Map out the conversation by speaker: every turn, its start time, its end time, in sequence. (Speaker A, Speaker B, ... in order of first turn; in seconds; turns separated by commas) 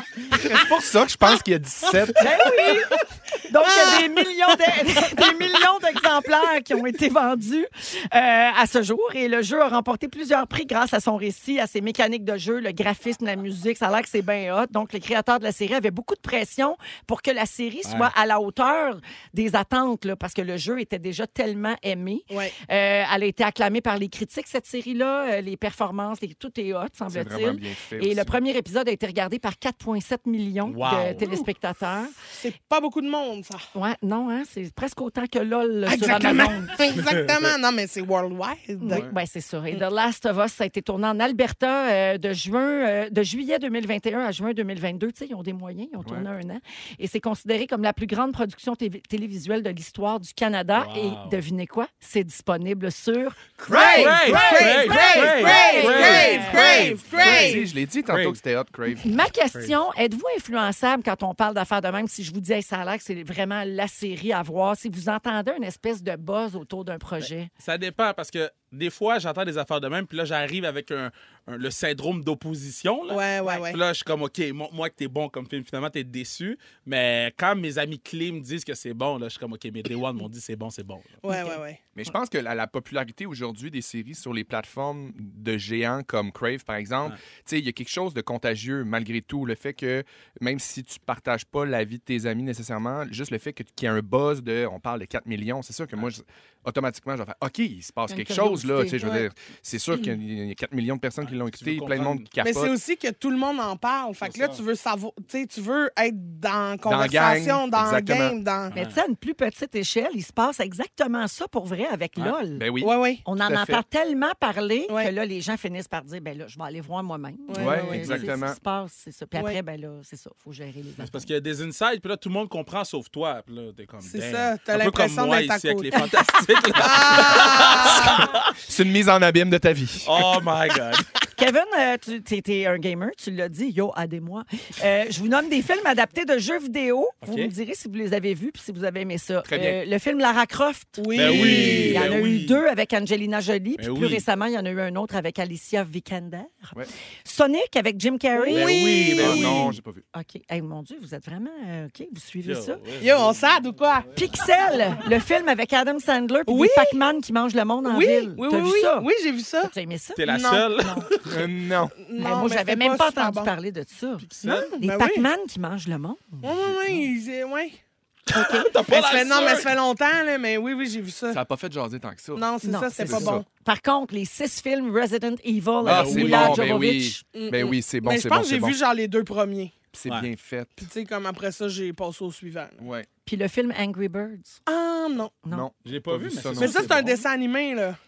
Speaker A: 0.3-2.3, Speaker B: 2.2-32.1, Speaker C: 3.6-4.5, Speaker D: 17.9-18.1, Speaker C: 22.3-22.6, Speaker A: 27.1-28.4, Speaker D: 30.6-31.2, Speaker C: 32.4-33.6, Speaker B: 33.7-36.7, Speaker C: 35.9-39.1, Speaker D: 37.1-37.5, Speaker B: 38.8-56.9, Speaker A: 38.9-39.1, Speaker A: 46.0-46.3, Speaker D: 50.7-51.4, Speaker A: 53.6-54.5, Speaker C: 53.7-57.6, Speaker D: 53.8-58.4, Speaker A: 56.0-59.1, Speaker B: 59.0-67.5, Speaker D: 67.2-81.2, Speaker C: 73.1-73.8, Speaker C: 81.2-81.8, Speaker B: 81.3-81.6, Speaker A: 81.9-102.8, Speaker B: 98.1-99.0, Speaker C: 99.0-99.2, Speaker D: 101.2-102.3, Speaker C: 102.4-108.7, Speaker D: 104.2-104.6, Speaker A: 106.8-108.3, Speaker D: 108.7-109.0, Speaker B: 108.7-112.7, Speaker A: 112.5-113.8, Speaker C: 112.8-113.2, Speaker B: 113.2-121.3, Speaker C: 117.5-118.3, Speaker A: 117.5-118.6, Speaker D: 121.0-128.5, Speaker C: 124.0-126.0, Speaker C: 126.7-128.3, Speaker A: 128.1-130.2, Speaker D: 130.0-131.1, Speaker B: 131.3-148.7, Speaker D: 137.2-137.5, Speaker A: 139.4-139.8, Speaker C: 141.0-142.1, Speaker D: 141.1-142.6, Speaker D: 143.8-144.2, Speaker C: 148.3-149.5, Speaker D: 148.5-149.7, Speaker A: 149.1-150.0, Speaker B: 150.1-152.8, Speaker D: 152.4-153.4, Speaker C: 153.0-154.2, Speaker B: 154.1-159.1, Speaker C: 156.5-157.0, Speaker C: 157.8-159.7, Speaker B: 159.6-161.1, Speaker D: 160.2-161.0, Speaker C: 160.3-160.7, Speaker C: 161.2-163.5, Speaker A: 161.2-161.9, Speaker B: 162.2-166.9, Speaker D: 164.2-164.7, Speaker C: 164.4-165.3, Speaker C: 166.4-167.8, Speaker D: 168.3-169.7, Speaker B: 168.3-168.7, Speaker C: 168.9-171.4, Speaker A: 171.3-173.4, Speaker C: 172.3-173.4, Speaker B: 172.6-177.2, Speaker A: 175.8-178.8, Speaker D: 175.8-176.7, Speaker C: 177.3-179.7, Speaker A: 179.9-180.9, Speaker C: 180.8-182.8, Speaker A: 182.8-183.1, Speaker B: 183.2-184.6, Speaker C: 184.7-185.3, Speaker A: 185.5-187.0, Speaker D: 185.8-187.2, Speaker C: 186.6-188.0